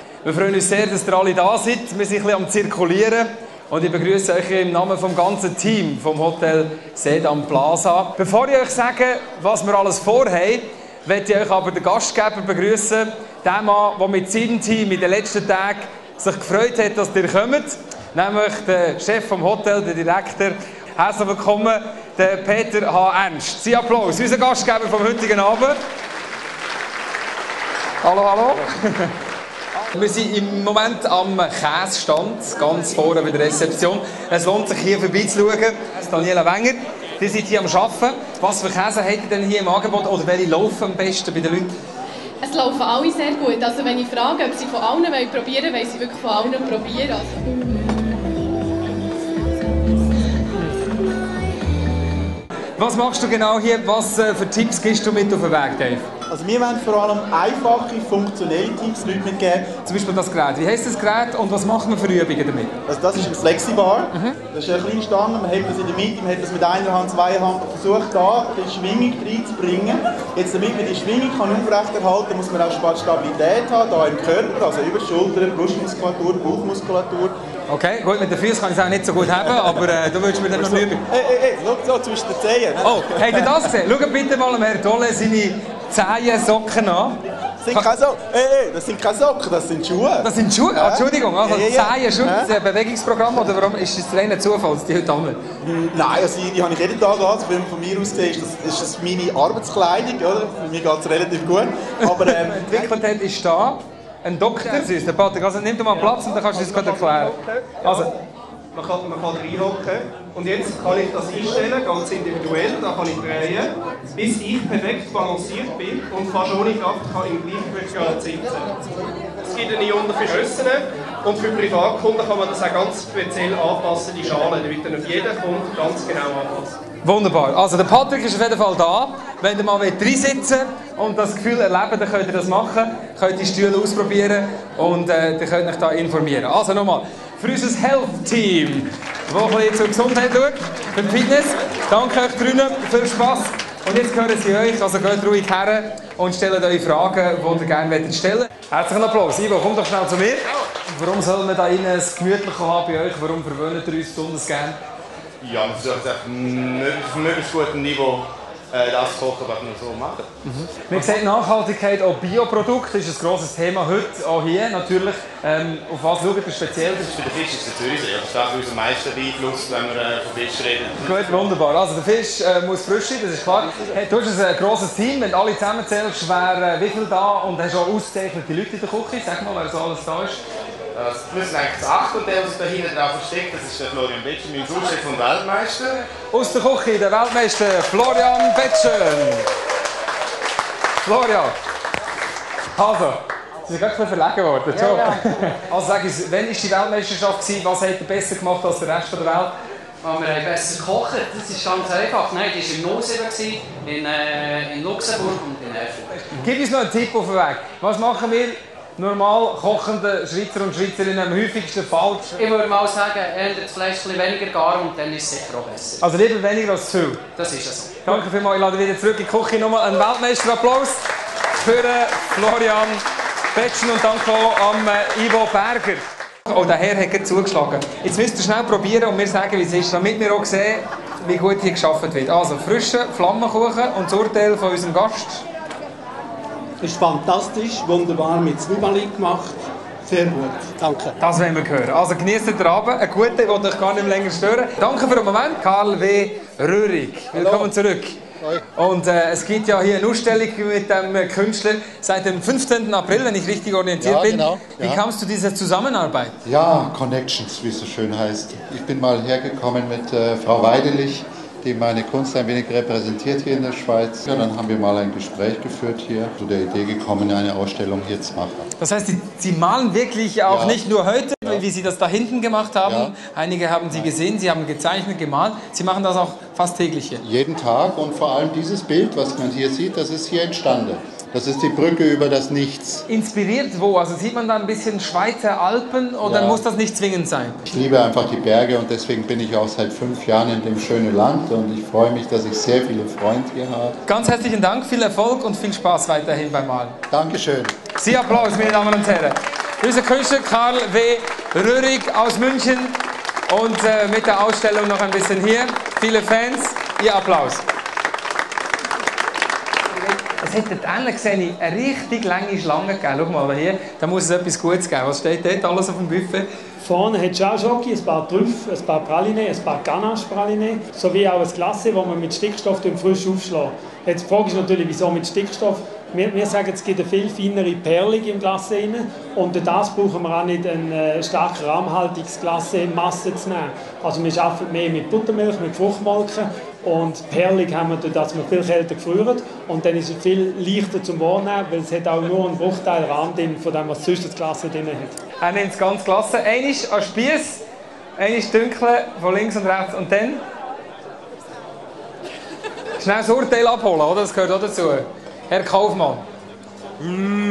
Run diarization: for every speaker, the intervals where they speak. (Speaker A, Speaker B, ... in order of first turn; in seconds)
Speaker A: 0.2-25.8, 28.0-29.1, 29.9-41.7, 52.8-56.1, 59.8-62.7, 77.7-81.0, 82.8-87.9, 90.2-95.4, 102.0-108.1, 127.0-154.8, 160.4-167.1, 171.0-180.4, 186.3-189.5, 191.0-191.5, 192.7-199.5, 206.3-212.3, 216.0-217.2, 218.0-221.0, 221.6-223.0, 223.5-235.4, 241.2-248.2, 248.7-256.4, 268.8-277.2, 283.1-287.6, 294.1-296.9, 297.9-303.0, 303.5-307.6, 310.4-316.5, 345.4-347.6, 348.2-350.4, 353.0-356.2
Speaker B: 42.4-47.4
Speaker C: 56.3-59.7, 62.9-77.3, 79.5-79.8, 80.5-83.7, 87.6-92.5, 95.6-102.8
Speaker D: 105.9-108.1, 108.7-118.7, 119.5-126.7
Speaker E: 155.4-160.3, 167.1-171.3, 180.9-186.0
Speaker F: 200.0-206.2, 212.4-216.0, 217.3-218.1
Speaker G: 236.8-241.1
Speaker H: 247.3-247.7, 254.0-255.0, 256.4-268.7, 270.5-270.8, 272.8-273.1, 277.2-283.1, 286.2-286.6, 287.6-294.0, 297.1-298.8
Speaker I: 316.8-345.2